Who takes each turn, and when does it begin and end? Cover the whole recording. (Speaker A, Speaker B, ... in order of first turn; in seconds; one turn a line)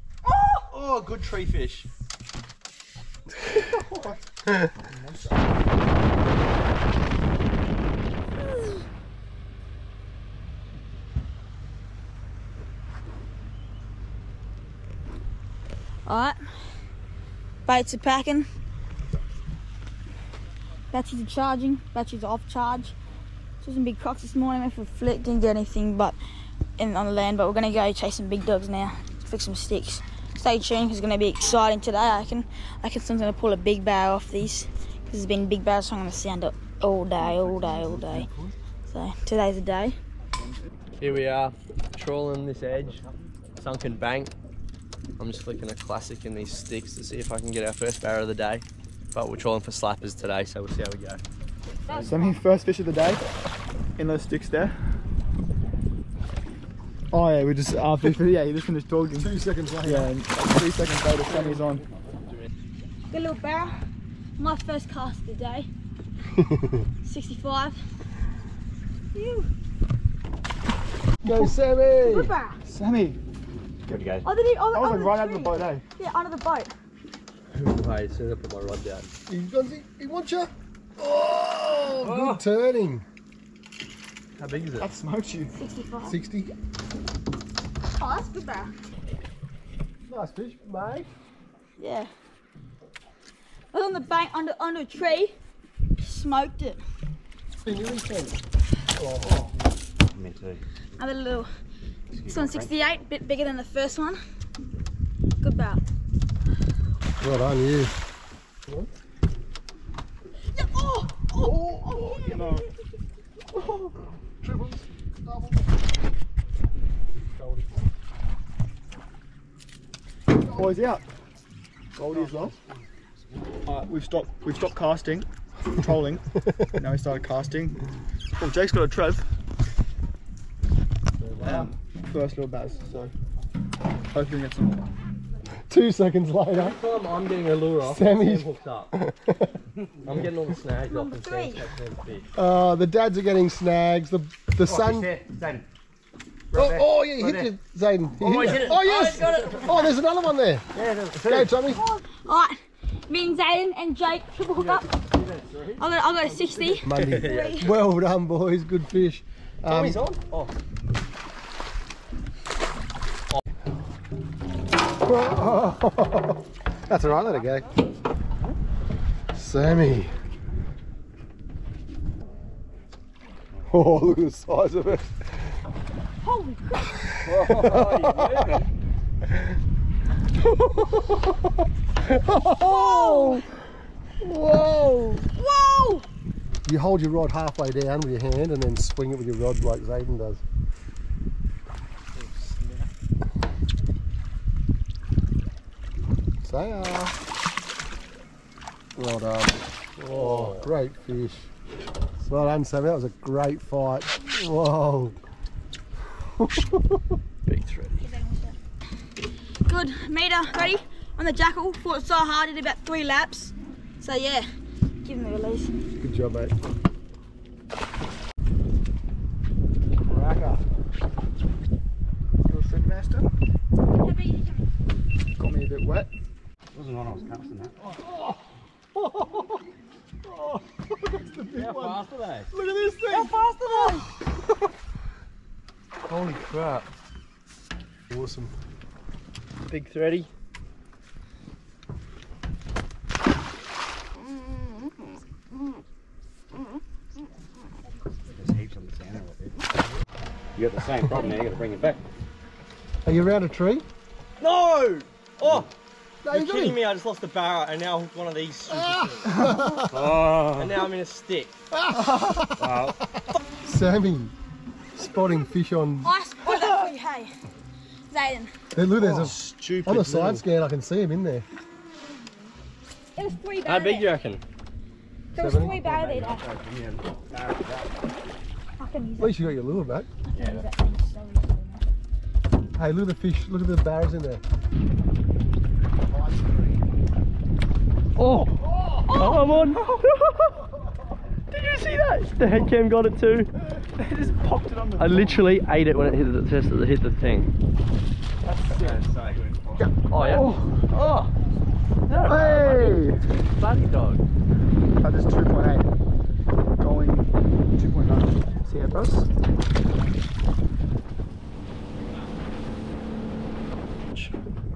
Speaker A: 0.2-0.7
Speaker B: 0.7-1.9
Speaker C: 3.6-4.2
Speaker C: 4.9-5.4
Speaker A: 16.1-16.4
Speaker A: 17.6-18.5
Speaker A: 20.9-22.9
Speaker A: 23.6-26.1
Speaker A: 26.8-38.3
Speaker D: 37.2-38.5
Speaker A: 38.9-40.0
Speaker B: 41.0-43.0
Speaker B: 43.6-44.3
Speaker B: 45.2-51.2
Speaker A: 51.7-52.4
Speaker E: 51.9-52.2
Speaker C: 52.1-53.2
Speaker C: 54.0-54.8
Speaker C: 57.1-61.8
Speaker D: 59.1-60.1
Speaker B: 61.2-61.8
Speaker A: 63.1-63.8
Speaker A: 64.4-65.7
Speaker D: 66.4-66.8
Speaker A: 67.0-67.8
Speaker A: 69.1-69.5
Speaker D: 71.2-72.3
Speaker A: 72.0-72.6
Speaker C: 72.6-73.2
Speaker E: 73.8-74.3
Speaker A: 74.2-76.7
Speaker C: 74.7-75.8
Speaker B: 77.5-79.1
Speaker D: 79.3-83.0
Speaker B: 84.4-84.9
Speaker C: 84.8-85.5
Speaker A: 85.5-86.2
Speaker D: 86.0-86.5
Speaker A: 88.0-88.7
Speaker D: 90.1-91.1
Speaker A: 91.8-92.1
Speaker A: 93.7-95.3
Speaker A: 96.0-96.8
Speaker D: 97.6-98.4
Speaker D: 98.9-99.5
Speaker E: 100.1-100.6
Speaker A: 101.0-101.5
Speaker E: 102.1-102.8
Speaker A: 102.3-104.2
Speaker A: 105.4-105.8
Speaker D: 107.2-107.9
Speaker A: 110.5-112.7
Speaker C: 111.7-112.7
Speaker C: 113.5-113.9
Speaker D: 114.4-115.5
Speaker C: 120.5-121.0
Speaker C: 121.9-122.5
Speaker E: 122.1-122.8
Speaker C: 123.7-125.3
Speaker C: 125.8-126.2
Speaker C: 126.8-127.8
Speaker C: 128.4-129.2
Speaker B: 131.4-131.7
Speaker C: 131.4-133.1
Speaker C: 134.1-134.8
Speaker D: 135.7-136.8
Speaker B: 136.6-138.9
Speaker D: 137.8-139.6
Speaker B: 140.0-142.3
Speaker A: 140.9-141.6
Speaker D: 142.3-145.1
Speaker E: 144.6-145.7
Speaker E: 146.5-147.5
Speaker D: 146.5-150.6
Speaker B: 148.2-150.0
Speaker E: 149.1-149.7
Speaker B: 150.7-151.5
Speaker D: 151.2-151.8
Speaker A: 151.7-154.8
Speaker B: 154.5-155.8
Speaker A: 155.8-157.8
Speaker B: 156.8-157.7
Speaker D: 156.8-160.0
Speaker B: 159.6-160.5
Speaker D: 165.0-167.7
Speaker B: 167.0-167.7
Speaker D: 169.3-170.1
Speaker D: 173.7-175.2
Speaker A: 176.2-177.1
Speaker E: 177.2-178.6
Speaker D: 177.5-178.4
Speaker D: 180.6-181.2
Speaker D: 182.0-183.5
Speaker A: 182.6-183.4
Speaker D: 184.2-185.3
Speaker A: 185.3-186.1
Speaker D: 186.6-190.4
Speaker B: 192.3-192.6
Speaker D: 196.4-197.1
Speaker D: 198.9-201.5
Speaker B: 200.1-200.7
Speaker D: 202.3-205.2
Speaker D: 206.2-207.0
Speaker B: 207.4-208.1
Speaker A: 208.0-208.6
Speaker A: 209.6-214.4
Speaker A: 215.0-215.7
Speaker D: 216.0-216.5
Speaker C: 220.0-220.6
Speaker C: 222.4-223.3
Speaker A: 224.0-224.7
Speaker C: 225.4-226.1
Speaker E: 226.7-227.8
Speaker C: 231.3-232.0
Speaker E: 231.5-232.5
Speaker A: 233.1-234.1
Speaker B: 236.0-236.9
Speaker D: 238.1-238.5
Speaker B: 239.7-240.3
Speaker E: 248.3-249.7
Speaker E: 250.6-252.0
Speaker D: 253.0-253.8
Speaker B: 254.4-255.7
Speaker D: 256.2-256.8
Speaker B: 256.3-259.4
Speaker D: 258.7-260.0
Speaker E: 259.9-260.8
Speaker B: 260.5-261.5
Speaker D: 261.7-262.7
Speaker E: 262.6-263.0
Speaker D: 263.6-264.3
Speaker D: 264.9-266.1
Speaker A: 266.0-267.3
Speaker A: 268.1-268.5
Speaker D: 268.7-271.4
Speaker B: 269.0-270.4
Speaker A: 273.1-274.1
Speaker B: 273.6-274.4
Speaker D: 275.3-275.8
Speaker A: 275.3-276.4
Speaker E: 275.7-278.0
Speaker A: 278.8-279.6
Speaker D: 279.2-280.1
Speaker A: 280.2-281.8
Speaker E: 280.4-280.6
Speaker D: 282.7-284.4
Speaker D: 286.3-286.6
Speaker B: 288.1-290.5
Speaker A: 289.0-289.8
Speaker B: 291.5-293.5
Speaker C: 293.9-295.5
Speaker B: 294.9-297.5
Speaker B: 298.5-299.0
Speaker C: 298.6-298.9
Speaker E: 298.8-299.9
Speaker C: 299.8-300.9
Speaker B: 300.1-301.3
Speaker B: 302.1-304.2
Speaker C: 302.2-303.2
Speaker C: 305.0-305.9
Speaker C: 306.8-309.3